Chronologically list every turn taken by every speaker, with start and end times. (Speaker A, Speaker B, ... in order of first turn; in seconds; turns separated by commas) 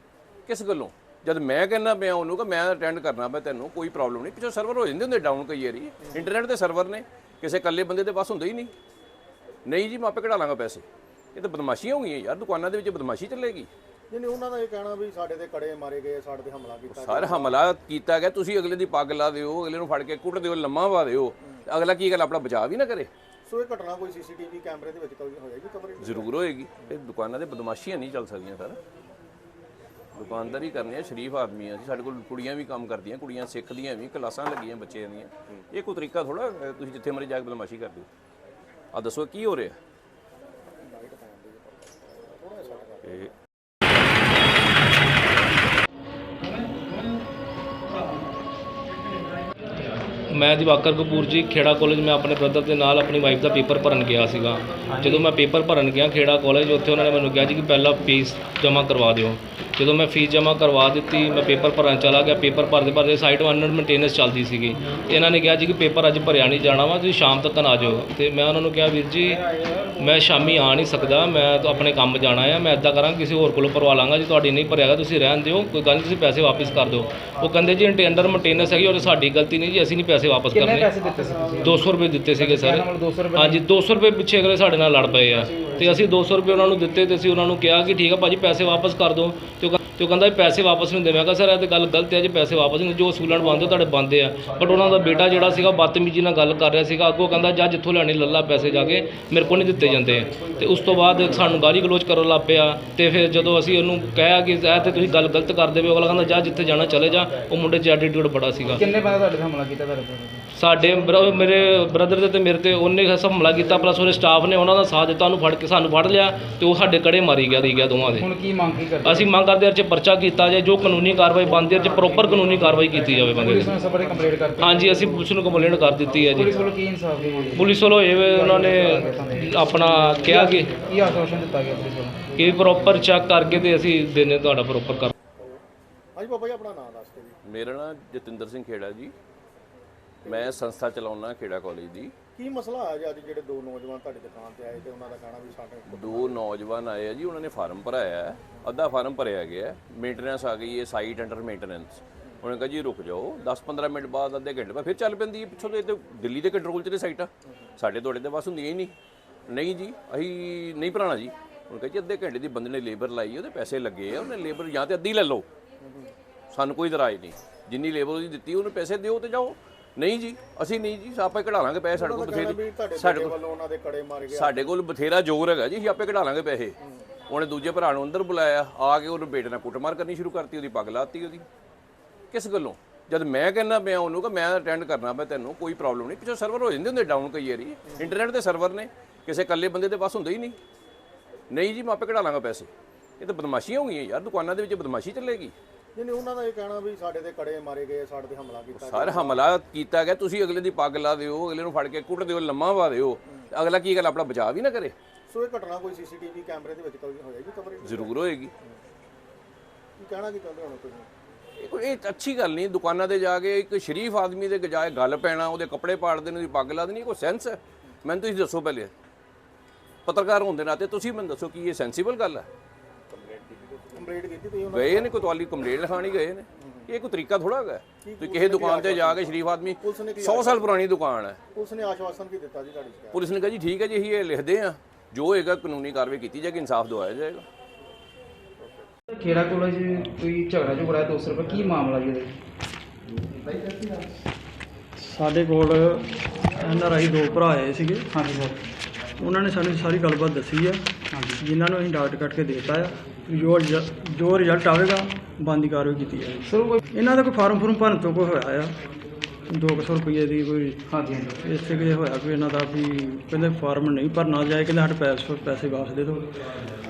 Speaker A: 0.5-8.7, Speaker A: 9.7-13.7, Speaker B: 14.1-17.6, Speaker A: 16.9-23.1, Speaker B: 23.5-26.9, Speaker A: 26.0-28.8, Speaker A: 30.2-38.1, Speaker A: 38.9-39.8, Speaker B: 40.9-43.3, Speaker A: 43.0-43.3, Speaker C: 50.3-69.5, Speaker D: 54.9-55.2, Speaker D: 69.3-71.5, Speaker C: 70.0-80.9, Speaker D: 80.5-83.7, Speaker C: 81.6-108.9, Speaker D: 85.4-86.2, Speaker D: 108.6-110.5, Speaker C: 110.5-118.3, Speaker D: 118.2-119.3, Speaker C: 119.0-123.8, Speaker D: 122.4-133.2, Speaker C: 124.6-126.7, Speaker C: 127.5-130.7, Speaker C: 132.4-135.1, Speaker B: 136.2-137.4, Speaker A: 137.4-139.1, Speaker B: 140.2-140.6, Speaker A: 140.3-142.1, Speaker B: 142.4-146.4, Speaker A: 145.9-158.9, Speaker A: 159.5-165.5, Speaker B: 165.8-166.1, Speaker A: 166.5-173.4, Speaker B: 171.9-174.7, Speaker A: 174.3-176.8, Speaker A: 177.3-181.4, Speaker A: 182.3-190.6, Speaker A: 191.5-195.5, Speaker B: 195.9-199.5, Speaker A: 198.7-204.9, Speaker B: 205.3-208.8, Speaker A: 207.8-208.5, Speaker B: 210.0-211.1, Speaker A: 211.6-218.9, Speaker A: 220.1-222.5, Speaker B: 223.2-225.3, Speaker A: 224.7-231.4, Speaker B: 226.6-226.9, Speaker B: 228.0-230.8, Speaker B: 231.5-233.3, Speaker A: 233.1-237.5, Speaker B: 238.6-238.9, Speaker D: 239.1-242.3, Speaker E: 245.0-248.1, Speaker D: 248.1-248.6, Speaker E: 249.2-258.8, Speaker D: 251.1-251.4, Speaker D: 256.5-256.8, Speaker E: 259.5-260.8, Speaker D: 260.9-261.4, Speaker E: 261.4-266.3